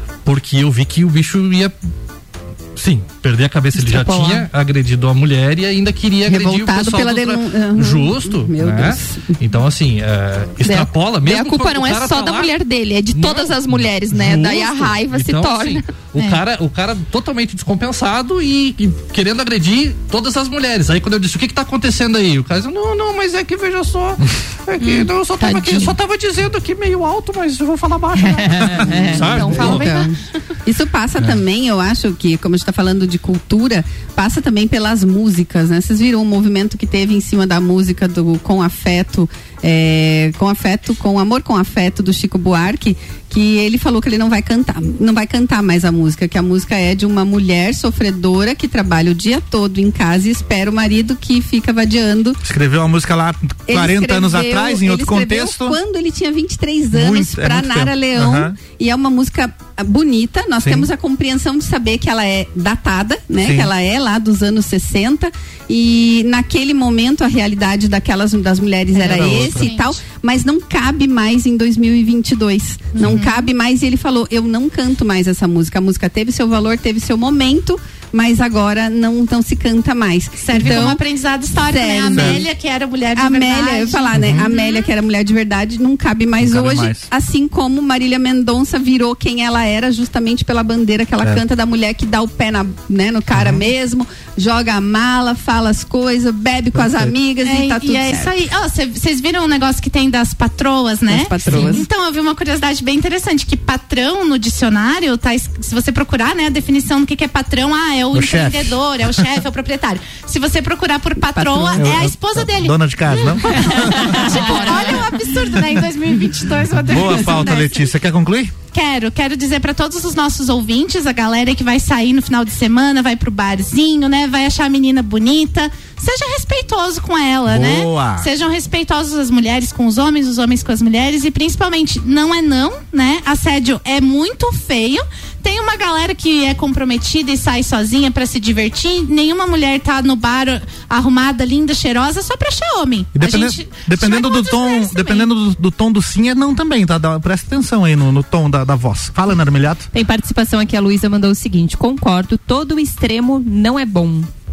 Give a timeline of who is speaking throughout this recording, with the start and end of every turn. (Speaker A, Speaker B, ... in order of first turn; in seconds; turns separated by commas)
Speaker A: 0.2-1.7, Speaker A: 2.8-12.5, Speaker B: 3.7-4.5, Speaker C: 6.2-9.4, Speaker B: 10.6-15.8, Speaker A: 13.1-30.0, Speaker B: 24.8-25.9, Speaker B: 28.4-30.1, Speaker C: 28.9-52.4, Speaker D: 52.4-55.8, Speaker C: 53.7-82.4, Speaker D: 56.9-58.5, Speaker D: 60.6-60.9, Speaker D: 63.4-63.7, Speaker D: 69.0-69.8, Speaker E: 69.0-69.9, Speaker E: 72.9-73.5, Speaker D: 73.0-73.2, Speaker E: 80.4-84.9, Speaker D: 80.6-80.9, Speaker D: 82.1-82.4, Speaker C: 83.1-98.3, Speaker D: 84.1-84.5, Speaker D: 86.4-87.1, Speaker D: 93.3-93.7, Speaker D: 96.7-97.1, Speaker E: 97.4-117.8, Speaker C: 101.1-101.8, Speaker D: 101.5-101.8, Speaker D: 108.1-109.2, Speaker C: 111.3-111.9, Speaker D: 111.8-114.9, Speaker B: 114.3-115.1, Speaker D: 116.7-118.5, Speaker E: 118.7-145.3, Speaker D: 127.5-128.3, Speaker D: 143.1-149.9, Speaker F: 149.9-154.3